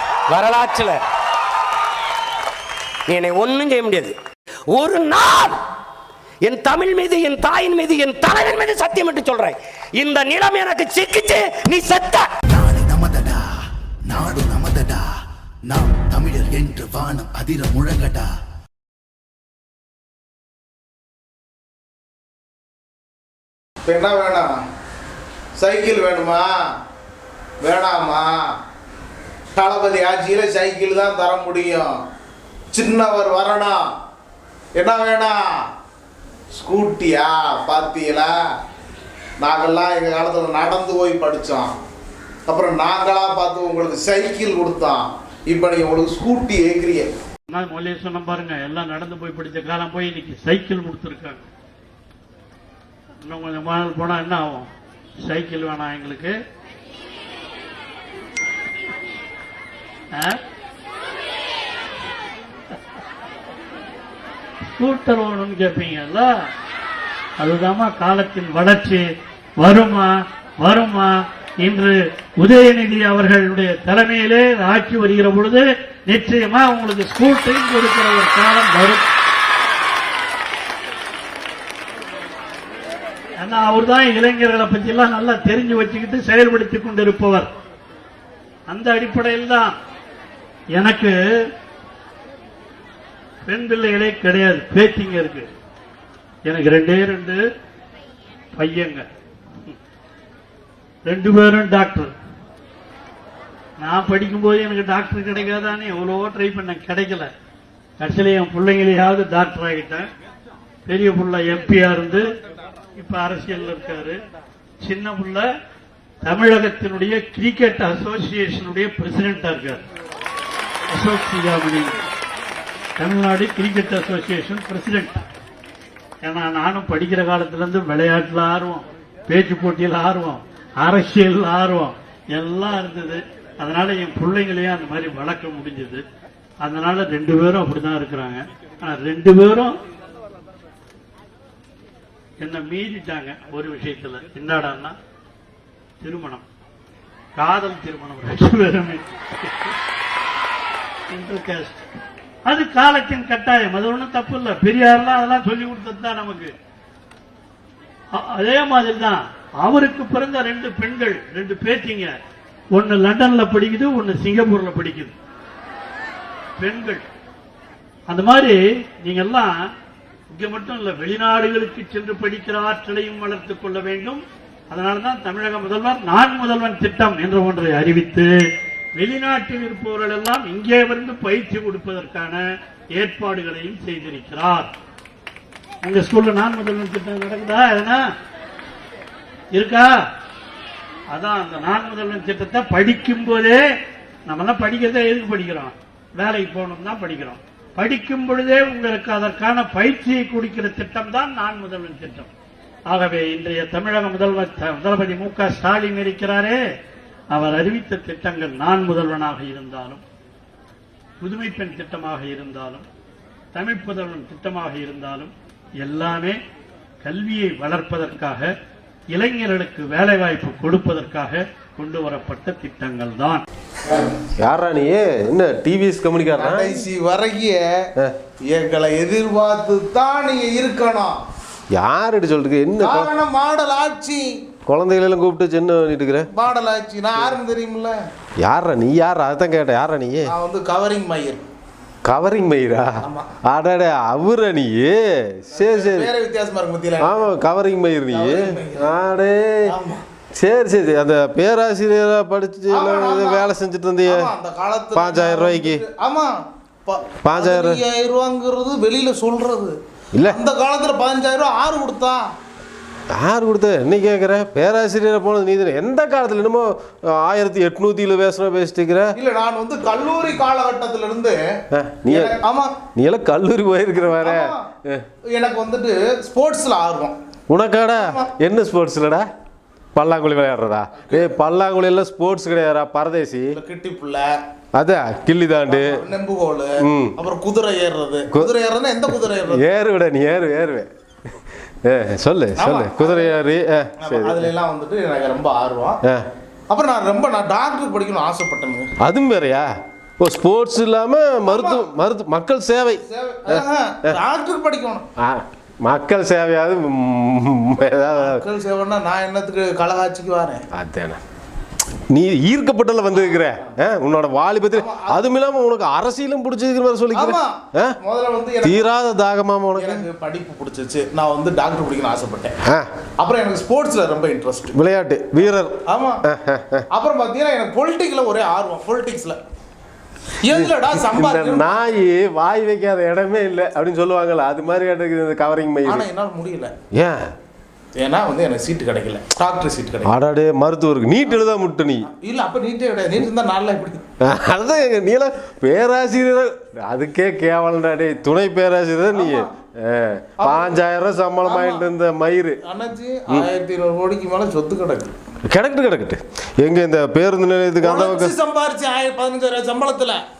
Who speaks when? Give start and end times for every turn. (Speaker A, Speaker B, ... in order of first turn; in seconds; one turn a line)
Speaker A: 0.3-1.0
Speaker A: 3.1-4.1
Speaker A: 4.7-5.6
Speaker A: 6.4-12.2
Speaker B: 12.5-13.5
Speaker B: 14.1-15.1
Speaker B: 15.7-18.3
Speaker C: 23.8-24.5
Speaker C: 25.6-26.5
Speaker C: 27.6-28.5
Speaker C: 29.5-31.9
Speaker C: 32.7-33.8
Speaker C: 34.8-35.4
Speaker C: 36.5-38.4
Speaker C: 39.4-41.7
Speaker C: 42.5-47.1
Speaker D: 47.5-51.5
Speaker D: 53.2-54.7
Speaker D: 55.2-56.3
Speaker D: 60.1-60.4
Speaker D: 64.7-66.3
Speaker D: 67.4-69.0
Speaker D: 69.6-79.0
Speaker D: 83.4-87.5
Speaker D: 88.7-89.7
Speaker D: 90.7-91.1
Speaker D: 93.5-95.5
Speaker D: 96.5-97.4
Speaker D: 98.5-99.0
Speaker D: 101.0-102.1
Speaker D: 103.8-107.3
Speaker D: 108.0-110.1
Speaker D: 110.9-112.2
Speaker D: 113.0-114.2
Speaker D: 114.8-115.4
Speaker D: 116.2-119.8
Speaker D: 120.9-122.0
Speaker D: 123.0-125.2
Speaker D: 126.2-136.0
Speaker D: 136.6-139.7
Speaker D: 142.4-144.9
Speaker D: 146.0-146.4
Speaker D: 147.3-149.7
Speaker D: 151.1-151.8
Speaker D: 152.5-156.5
Speaker D: 158.2-162.1
Speaker D: 162.7-165.1
Speaker D: 166.6-167.0
Speaker D: 168.1-169.5
Speaker D: 170.3-178.3
Speaker D: 179.0-182.4
Speaker D: 182.9-184.7
Speaker D: 185.8-188.0
Speaker D: 189.5-189.9
Speaker D: 191.1-193.6
Speaker D: 194.2-202.3
Speaker D: 202.9-206.6
Speaker D: 207.3-210.0
Speaker D: 211.2-212.8
Speaker D: 213.5-216.3
Speaker D: 217.0-218.5
Speaker D: 219.1-223.4
Speaker E: 224.4-226.8
Speaker C: 226.3-227.9
Speaker C: 228.4-231.2
Speaker E: 231.7-233.1
Speaker C: 232.8-234.2
Speaker E: 234.7-236.3
Speaker C: 236.3-238.0
Speaker E: 238.4-240.3
Speaker C: 240.2-241.5
Speaker E: 242.0-246.1
Speaker C: 243.0-243.3
Speaker C: 245.5-247.3
Speaker E: 247.0-249.7
Speaker C: 248.1-248.9
Speaker C: 249.6-250.0
Speaker E: 250.4-254.3
Speaker C: 252.7-253.5
Speaker C: 254.1-259.7
Speaker E: 254.9-255.8
Speaker E: 257.2-257.8
Speaker C: 260.2-262.2
Speaker E: 263.1-269.1
Speaker C: 269.1-271.4
Speaker E: 271.7-272.4
Speaker C: 272.1-272.8
Speaker E: 272.9-275.0
Speaker C: 274.1-274.7
Speaker C: 275.3-277.1
Speaker E: 277.5-279.2
Speaker C: 277.9-278.3
Speaker E: 279.9-283.6
Speaker C: 281.0-281.3
Speaker C: 283.5-284.3
Speaker E: 284.7-286.0
Speaker C: 285.7-289.6
Speaker E: 286.8-287.1
Speaker E: 289.4-290.9
Speaker E: 291.8-294.5
Speaker C: 292.5-293.4
Speaker C: 294.0-296.0
Speaker C: 296.7-298.9
Speaker E: 299.0-299.7
Speaker E: 300.2-304.2
Speaker C: 301.4-301.9
Speaker C: 303.1-305.1
Speaker E: 305.2-308.4
Speaker C: 308.1-310.6
Speaker E: 310.7-311.2
Speaker E: 312.1-317.9
Speaker C: 314.7-315.2
Speaker C: 317.1-318.9
Speaker E: 318.6-320.1
Speaker C: 319.7-322.5
Speaker C: 323.2-324.8
Speaker E: 324.7-326.8
Speaker C: 325.9-326.2
Speaker C: 326.9-329.4
Speaker C: 330.4-331.9
Speaker E: 330.4-336.1
Speaker C: 335.8-336.7
Speaker E: 336.9-337.3
Speaker C: 337.9-340.1
Speaker E: 340.0-342.1
Speaker C: 342.0-344.0
Speaker E: 344.2-352.6
Speaker C: 349.1-349.5
Speaker C: 350.4-350.8
Speaker C: 351.4-351.9
Speaker C: 352.6-355.1
Speaker E: 355.5-358.4
Speaker C: 357.8-360.2